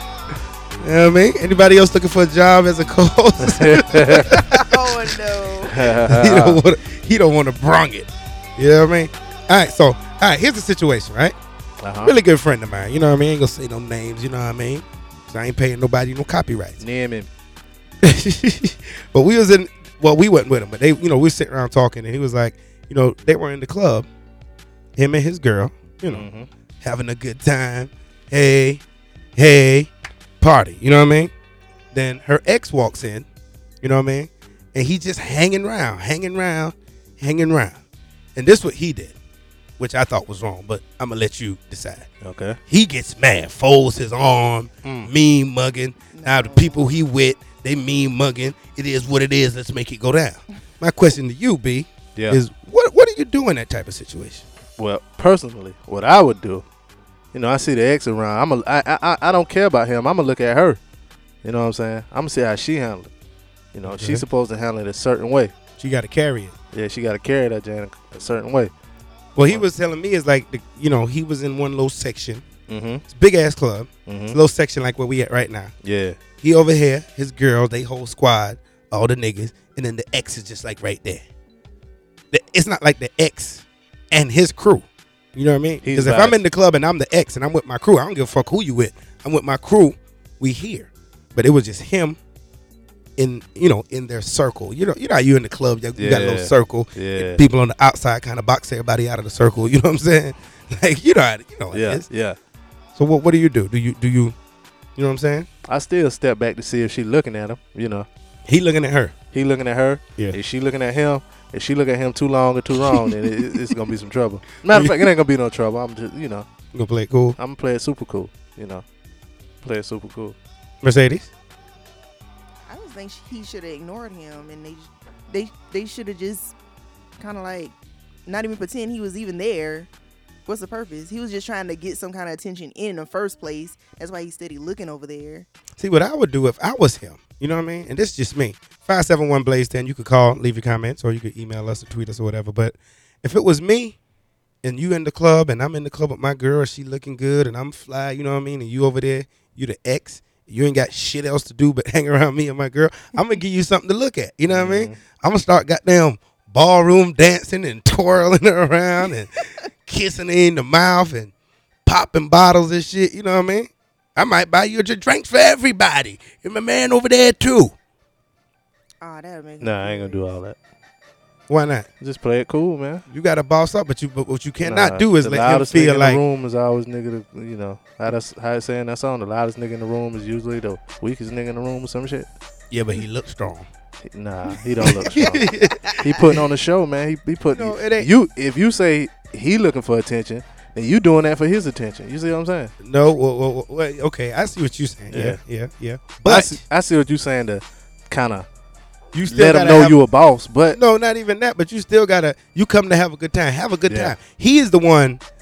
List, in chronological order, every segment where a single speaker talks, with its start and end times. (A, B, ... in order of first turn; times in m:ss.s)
0:00.8-0:04.7 A
0:03.4-0:04.4 B
0:04.5-0:05.9 C
0:05.7-0:06.6 B
0:06.0-0:11.3 A
0:11.8-0:12.1 B
0:12.0-0:16.8 A
0:16.8-0:17.3 B
0:18.0-0:24.1 A
0:25.0-0:26.3 A
0:26.1-0:26.5 B
0:26.8-0:28.8 A
0:29.4-0:29.9 A
0:30.4-0:31.3 A
0:31.9-0:33.3 A
0:33.8-0:37.8 A
0:38.4-0:39.1 A
0:39.8-0:42.1 A
0:42.2-0:42.6 B
0:42.7-0:54.4 A
0:44.8-0:45.1 B
0:46.1-0:46.9 C
0:54.8-0:56.6 B
0:57.3-1:00.8 B
1:01.4-1:03.1 B
1:03.7-1:05.5 B
1:03.9-1:04.2 A
1:05.8-1:06.6 A
1:06.7-1:08.7 B
1:09.4-1:12.4 A
1:12.7-1:13.0 B
1:13.1-1:15.7 A
1:14.1-1:14.4 B
1:15.8-1:16.2 B
1:16.3-1:21.2 A
1:22.3-1:32.2 A
1:25.8-1:26.4 B
1:33.2-1:42.0 A
1:36.0-1:37.4 B
1:41.7-1:42.4 B
1:43.0-1:44.3 A
1:45.0-1:45.5 A
1:45.7-1:48.1 B
1:48.5-1:49.2 A
1:49.3-1:56.5 B
1:54.7-1:55.0 A
1:56.7-1:57.4 A
1:57.4-1:58.8 B
1:59.6-2:00.4 B
2:00.8-2:01.3 A
2:02.7-2:06.6 C
2:07.2-2:07.7 C
2:08.3-2:09.9 C
2:10.4-2:15.5 C
2:15.8-2:24.0 A
2:24.6-2:41.3 A
2:34.5-2:35.0 B
2:41.9-2:47.7 A
2:49.0-2:50.3 C
2:49.6-2:50.6 B
2:51.5-2:51.9 A
2:52.0-2:53.0 B
2:53.1-2:56.2 A
2:54.6-3:02.3 B
3:02.7-3:03.7 A
3:04.0-3:12.7 B
3:04.8-3:06.4 A
3:05.2-3:06.0 C
3:07.5-3:08.1 A
3:12.8-3:16.6 A
3:15.1-3:15.4 B
3:16.2-3:18.5 B
3:19.1-3:20.0 A
3:19.3-3:20.8 B
3:20.7-3:25.2 A
3:23.9-3:24.2 B